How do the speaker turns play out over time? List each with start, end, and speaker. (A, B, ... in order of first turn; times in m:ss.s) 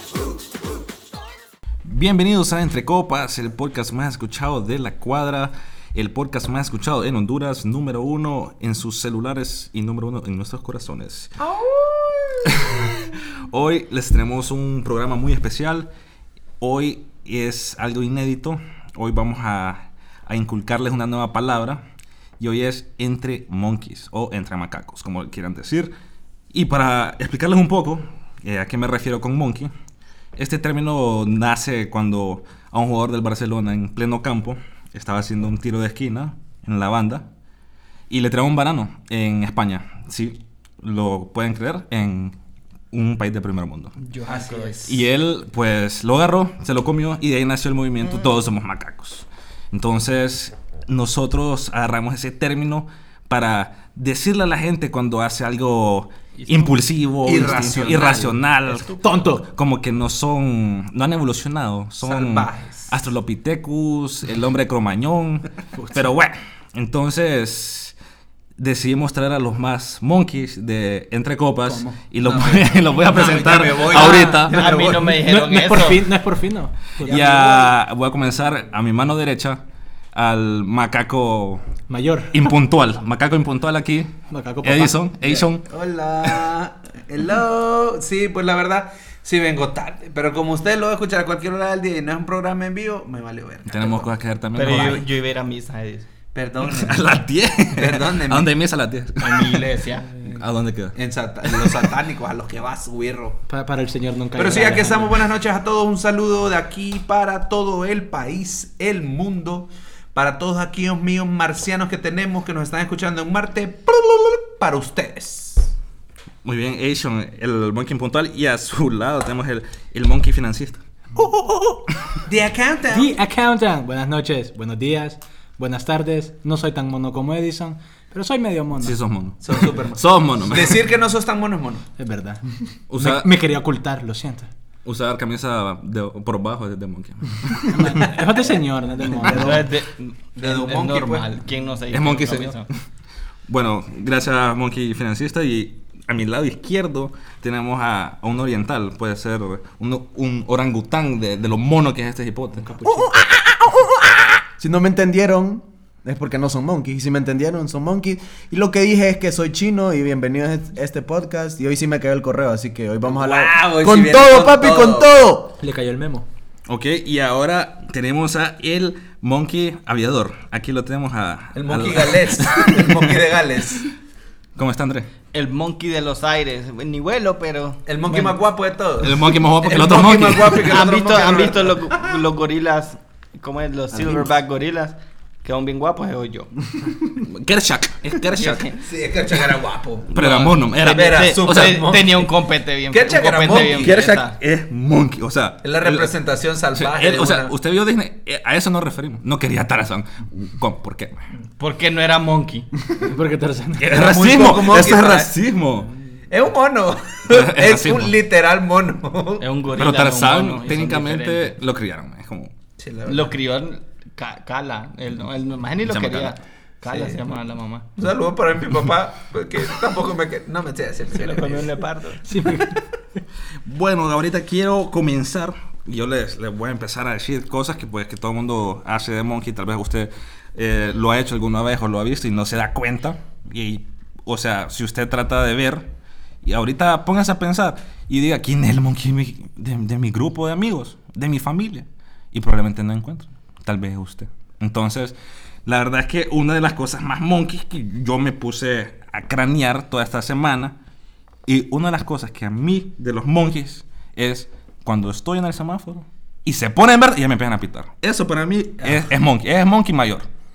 0:01.8-0:11.3 A
0:12.4-0:15.9 A
0:16.6-0:21.8 A
0:22.4-0:25.9 A
0:26.5-0:29.7 A
0:30.4-0:37.3 A
0:38.1-0:42.4 A
0:42.9-0:43.9 A
0:44.0-0:44.9 B
0:44.2-0:45.0 C
0:44.9-1:07.9 A
0:56.4-0:56.8 B
0:57.2-0:58.3 C
0:57.8-0:59.0 B
0:59.0-0:59.5 D
1:02.0-1:03.0 C
1:05.8-1:06.1 D
1:08.6-1:14.9 A
1:11.6-1:12.0 D
1:12.2-1:15.1 C
1:13.9-1:16.1 B
1:14.9-1:17.3 D
1:17.0-1:19.6 A
1:17.1-1:17.4 C
1:20.1-1:21.6 A
1:21.9-1:22.5 D
1:22.3-1:24.1 A
1:24.3-1:25.0 D
1:24.6-1:25.6 A
1:25.3-1:34.1 C
1:26.2-1:26.5 A
1:33.7-1:35.1 A
1:34.6-1:36.1 B
1:34.7-1:35.0 C
1:36.3-1:37.2 C
1:36.7-1:39.7 A
1:37.8-1:38.5 C
1:39.2-1:40.1 B
1:40.2-1:41.9 A
1:41.0-1:43.4 C
1:43.5-1:45.2 D
1:44.4-1:55.7 C
1:56.4-2:02.2 A
2:02.3-2:03.1 C
2:02.9-2:09.0 D
2:08.8-2:10.8 A
2:09.4-2:11.8 C
2:12.0-2:12.4 D
2:12.9-2:13.3 A
2:12.9-2:14.5 D
2:14.8-2:18.1 A
2:17.7-2:19.7 D
2:19.2-2:19.7 E
2:19.4-2:22.7 B
2:20.4-2:21.3 C
2:21.9-2:22.7 A
2:23.5-2:33.1 A
2:32.8-2:45.6 E
2:43.1-2:45.1 C
2:45.6-2:46.3 D
2:46.7-2:53.2 A
2:51.6-2:53.9 C
2:54.6-2:55.1 A
2:55.3-2:58.4 B
2:57.9-3:01.8 C
2:59.0-3:00.8 A
3:00.7-3:06.5 B
3:03.9-3:04.3 E
3:07.2-3:08.8 A
3:08.4-3:08.7 B
3:08.8-3:10.1 C
3:10.1-3:11.9 A
3:10.2-3:14.4 B
3:10.8-3:12.2 C
3:12.9-3:14.0 C
3:13.5-3:16.1 A
3:15.6-3:17.5 C
3:16.7-3:21.2 A
3:21.6-3:22.7 B
3:23.0-3:23.9 D
3:23.8-3:25.9 A
3:23.9-3:25.4 C
3:26.3-3:29.4 C
3:27.3-3:28.1 A
3:29.4-3:31.6 B
3:29.8-3:32.5 A
3:32.8-3:33.3 C
3:33.1-3:37.9 B
3:35.8-3:36.4 A
3:36.9-3:37.2 C
3:38.0-3:41.7 C
3:41.1-3:42.2 B
3:42.2-3:42.8 D
3:43.6-3:55.9 A
3:56.4-4:10.8 A
4:11.5-4:20.3 A
4:18.8-4:19.1 C